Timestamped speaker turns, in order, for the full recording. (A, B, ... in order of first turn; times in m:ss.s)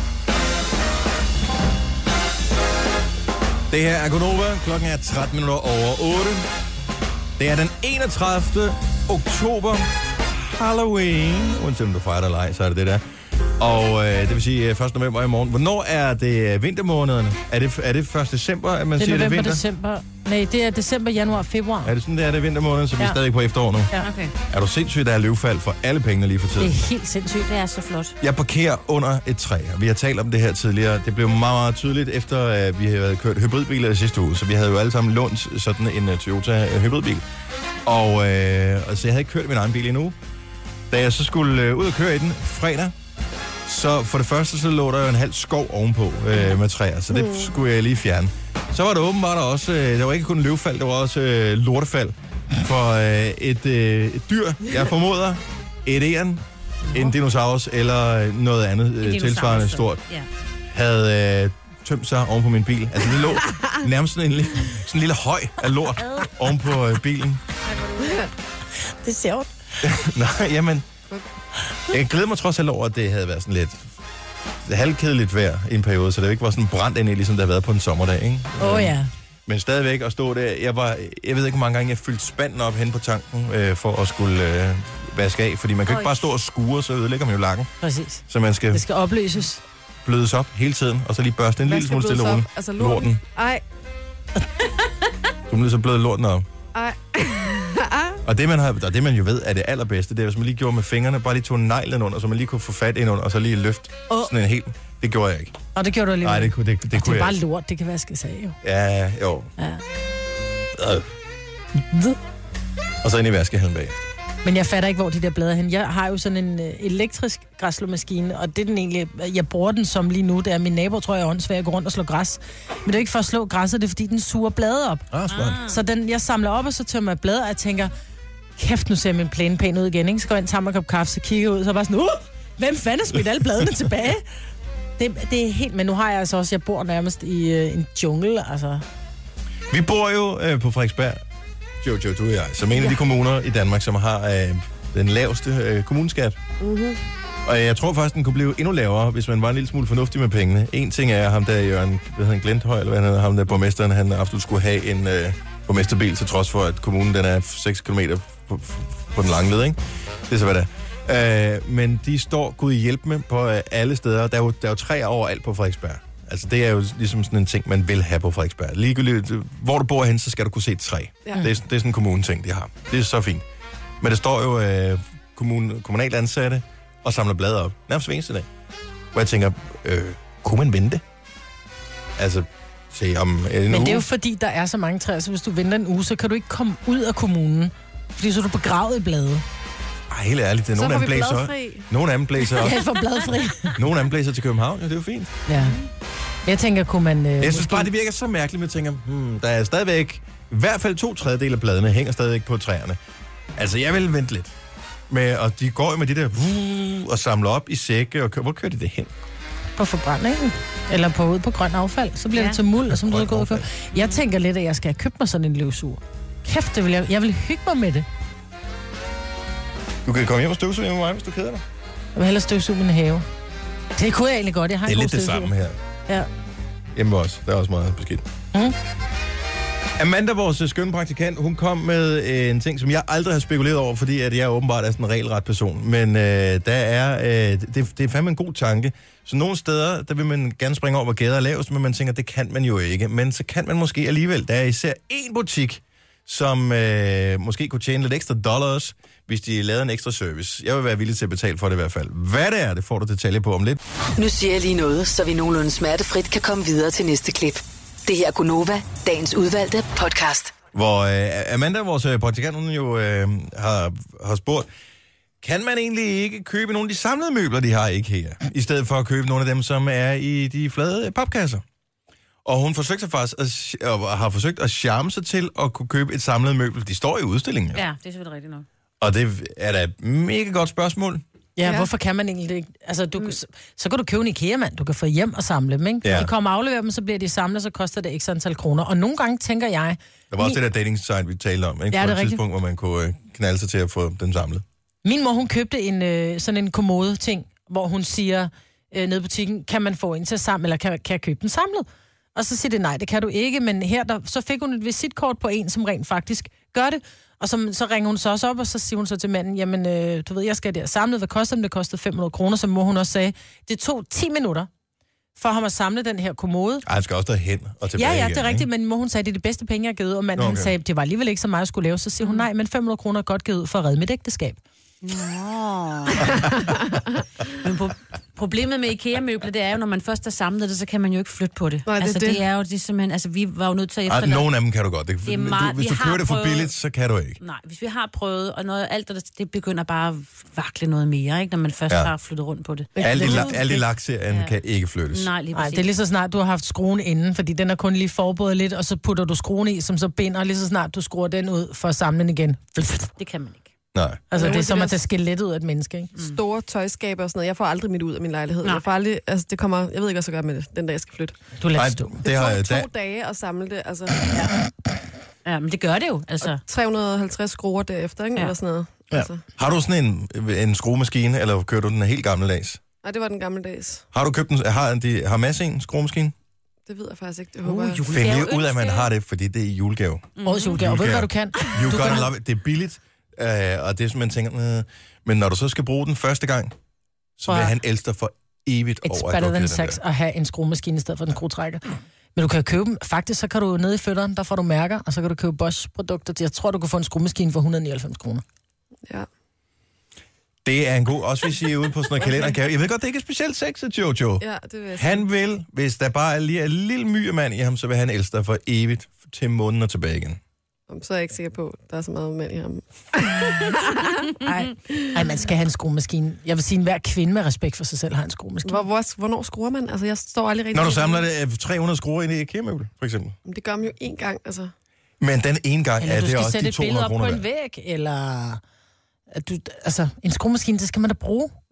0:03.7-0:06.5 A
0:07.4-0:13.0 A
0:13.6-0:19.6 A
0:19.0-0:21.9 B
0:21.8-0:23.9 A
0:24.0-0:24.3 C
0:24.4-0:26.8 A
0:26.6-0:27.5 B
0:27.4-0:28.2 C
0:28.2-0:37.2 A
0:37.8-0:40.2 A
0:40.9-0:42.9 A
0:43.6-1:00.0 A
0:47.1-0:47.5 D
0:59.0-1:00.3 C
1:00.7-1:07.4 A
1:07.7-1:08.2 C
1:08.0-1:08.3 D
1:08.8-1:09.5 B
1:09.8-1:10.8 A
1:11.9-1:13.9 A
1:14.6-1:27.7 A
1:18.6-1:19.1 B
1:27.8-1:29.6 B
1:28.3-1:28.8 A
1:30.0-1:33.2 A
1:31.6-1:33.6 D
1:35.5-1:36.4 A
1:36.7-1:38.2 D
1:38.2-1:45.6 A
1:45.7-1:48.6 B
1:46.2-1:47.4 A
1:48.6-1:49.5 A
1:50.7-1:51.1 A
1:51.7-1:52.2 B
1:53.0-1:54.0 A
1:54.4-2:05.1 B
2:05.1-2:05.6 A
2:05.3-2:05.8 C
2:05.6-2:07.9 B
2:08.6-2:14.3 B
2:15.0-2:18.8 B
2:19.7-2:21.2 A
2:21.8-2:26.4 A
2:26.6-2:27.0 D
2:27.4-2:53.4 A
2:54.0-2:58.5 A
2:59.1-3:01.0 A
3:02.2-3:04.1 A
3:03.7-3:09.4 B
3:10.1-3:12.8 A
3:10.8-3:11.9 D
3:12.5-3:13.8 B
3:13.7-3:15.3 A
3:15.5-3:15.8 B
3:16.4-3:17.9 B
3:17.4-3:23.0 A
3:23.6-3:24.5 A
3:25.1-3:29.1 A
3:29.8-3:38.0 B
3:32.3-3:32.6 C
3:32.8-3:33.7 A
3:33.9-3:34.2 C
3:40.0-3:41.6 A
3:42.1-3:43.2 B
3:44.0-3:45.5 B
3:44.8-3:45.8 A
3:46.9-3:48.2 A
3:50.0-4:13.8 A
4:14.2-4:20.5 E
4:20.7-4:24.7 A
4:25.4-4:31.6 A
4:32.4-4:37.8 A
4:37.7-4:38.6 C
4:39.0-4:41.2 A
4:41.6-4:50.6 B
4:41.6-4:41.9 D
4:46.0-4:46.3 A
4:50.3-4:54.6 A
4:51.9-4:52.4 B
4:55.0-5:14.7 B
5:15.4-5:16.8 B
5:16.8-5:18.7 A
5:17.9-5:24.6 B
5:20.4-5:20.7 A
5:22.2-5:22.4 C
5:25.0-5:26.5 C
5:27.5-5:34.5 C
5:31.8-5:32.4 D
5:34.1-5:37.4 A
5:35.2-5:36.7 C
5:37.4-5:44.5 C
5:42.9-5:43.6 D
5:43.0-5:45.3 A
5:45.1-5:45.9 C
5:45.5-5:53.1 B
5:53.2-5:53.7 C
5:53.9-5:54.2 A
5:54.3-5:56.1 B
5:54.3-5:55.0 D
5:56.1-5:56.4 C
5:56.2-6:01.4 D
6:01.6-6:02.2 B
6:01.7-6:02.9 A
6:02.2-6:04.3 D
6:05.4-6:06.6 C
6:06.4-6:09.4 D
6:09.1-6:12.8 A
6:13.0-6:14.0 D
6:14.1-6:16.3 A
6:16.8-6:18.1 D
6:17.6-6:19.1 C
6:18.1-6:26.7 A
6:20.4-6:20.8 C
6:20.4-6:22.3 B
6:27.4-6:30.0 A
6:29.0-6:38.4 B
6:40.6-6:44.4 A
6:44.4-6:45.2 D
6:45.0-6:50.4 A
6:50.9-6:55.2 D
6:54.4-6:58.8 B
6:58.6-7:01.2 D
7:00.7-7:03.4 A
7:03.4-7:04.7 D
7:05.2-7:07.4 A
7:06.0-7:08.6 B
7:09.3-7:11.5 B